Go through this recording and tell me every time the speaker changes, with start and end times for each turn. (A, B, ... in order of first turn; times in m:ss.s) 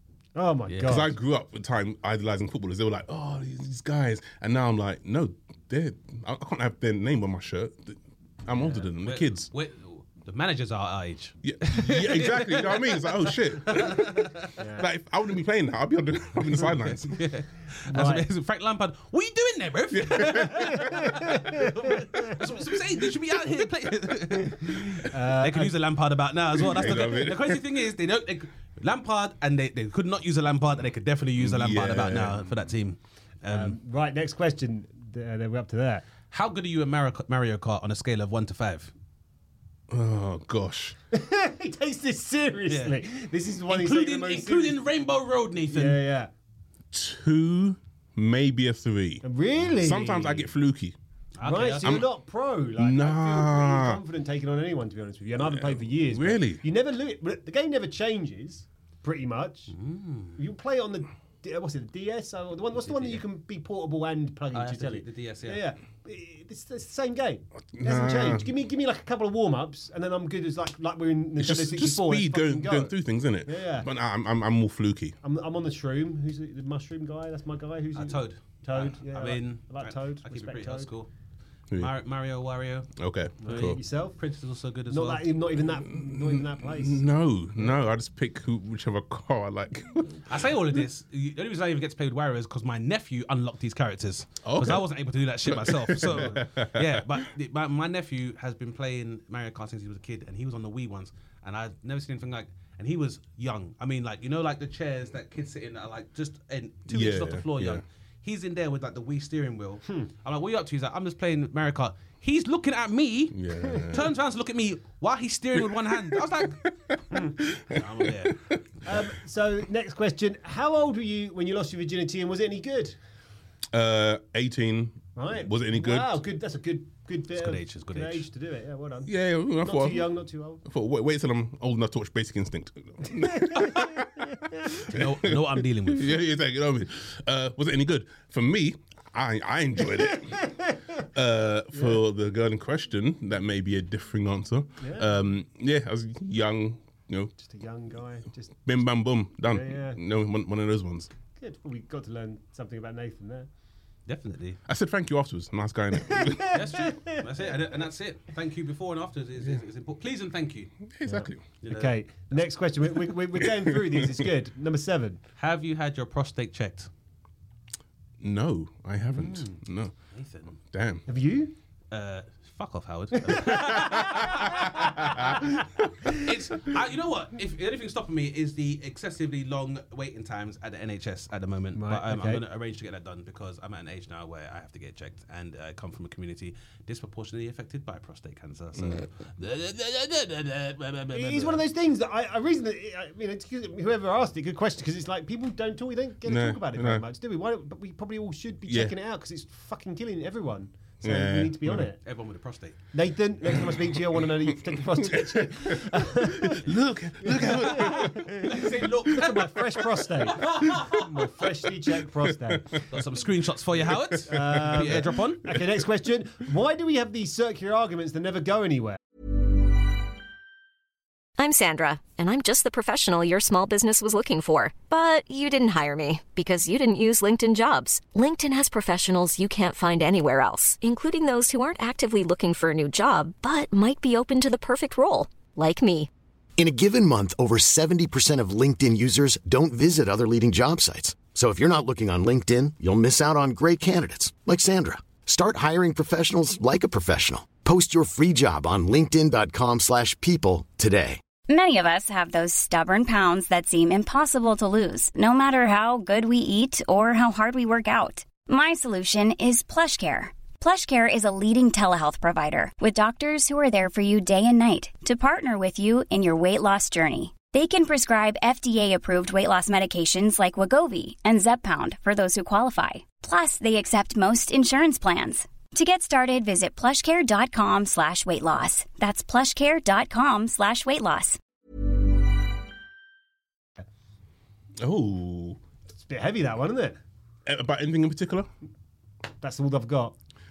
0:00.4-0:01.2 A
0:00.7-0:01.0 B
0:00.8-0:09.5 C
0:08.5-0:08.9 A
0:09.0-0:14.5 B
0:11.4-0:14.2 C
0:14.6-0:14.9 A
0:14.8-0:17.2 C
0:16.5-0:33.8 B
0:17.9-0:18.3 A
0:19.9-0:21.3 C
0:21.3-0:21.8 A
0:25.1-0:25.8 A
0:26.7-0:27.7 C
0:31.4-0:32.5 C
0:33.5-0:36.1 A
0:36.3-0:38.9 B
0:39.9-0:41.0 C
0:41.1-0:44.8 A
0:42.7-0:43.0 B
0:43.7-0:46.0 B
0:45.7-0:46.3 A
0:46.9-0:51.0 C
0:49.2-0:50.5 A
0:51.4-0:52.0 B
0:51.4-0:59.7 A
0:51.8-0:52.1 C
0:52.8-0:54.0 C
0:55.4-0:56.6 C
0:59.7-1:00.4 B
1:00.4-1:13.9 A
1:02.8-1:03.3 B
1:04.5-1:05.7 B
1:07.7-1:08.5 C
1:11.4-1:15.2 C
1:15.2-1:20.9 A
1:18.0-1:21.1 B
1:21.8-1:22.9 B
1:23.0-1:23.8 C
1:23.4-1:24.2 A
1:23.4-1:25.4 B
1:24.9-1:27.8 A
1:25.6-1:30.6 C
1:30.3-1:53.4 B
1:34.4-1:34.9 C
1:35.4-1:37.2 C
1:46.9-1:47.8 C
1:53.3-1:54.1 C
1:53.9-1:56.6 B
1:55.6-1:57.8 C
1:57.2-1:58.4 B
1:58.5-1:59.0 C
1:58.9-2:03.0 A
2:03.7-2:06.2 C
2:05.2-2:09.1 A
2:07.4-2:08.3 B
2:09.0-2:27.3 C
2:09.6-2:10.6 A
2:14.9-2:16.2 B
2:21.7-2:22.0 A
2:24.8-2:25.2 A
2:27.4-2:28.5 A
2:28.6-2:31.1 C
2:29.4-2:30.0 A
2:31.4-2:33.5 A
2:34.1-2:34.6 B
2:34.7-2:36.6 C
2:36.0-2:37.2 A
2:36.5-2:40.7 B
2:40.9-2:41.4 C
2:41.1-2:45.2 A
2:41.6-2:42.5 B
2:43.5-2:44.2 C
2:45.4-2:46.9 B
2:48.2-2:49.9 C
2:50.1-2:50.6 B
2:50.7-2:51.1 C
2:51.1-2:51.6 A
2:51.9-2:55.5 B
2:53.3-2:54.0 A
2:55.0-2:55.4 C
2:56.1-3:11.6 B
3:01.8-3:02.4 A
3:11.1-3:22.0 A
3:16.2-3:17.0 C
3:18.7-3:18.9 C
3:21.0-3:21.9 C
3:22.0-3:22.8 B
3:22.9-3:26.7 A
3:23.5-3:24.3 C
3:25.1-3:28.6 C
3:27.2-3:32.8 A
3:27.6-3:31.2 B
3:32.3-3:32.8 C
3:32.9-3:35.5 B
3:34.3-3:35.6 C
3:34.3-3:39.0 A
3:41.4-3:56.1 D
3:56.6-4:11.2 E
4:11.5-4:41.4 F
4:44.8-4:45.6 C
4:45.9-4:47.0 A
4:47.5-4:48.5 C
4:49.4-4:50.2 A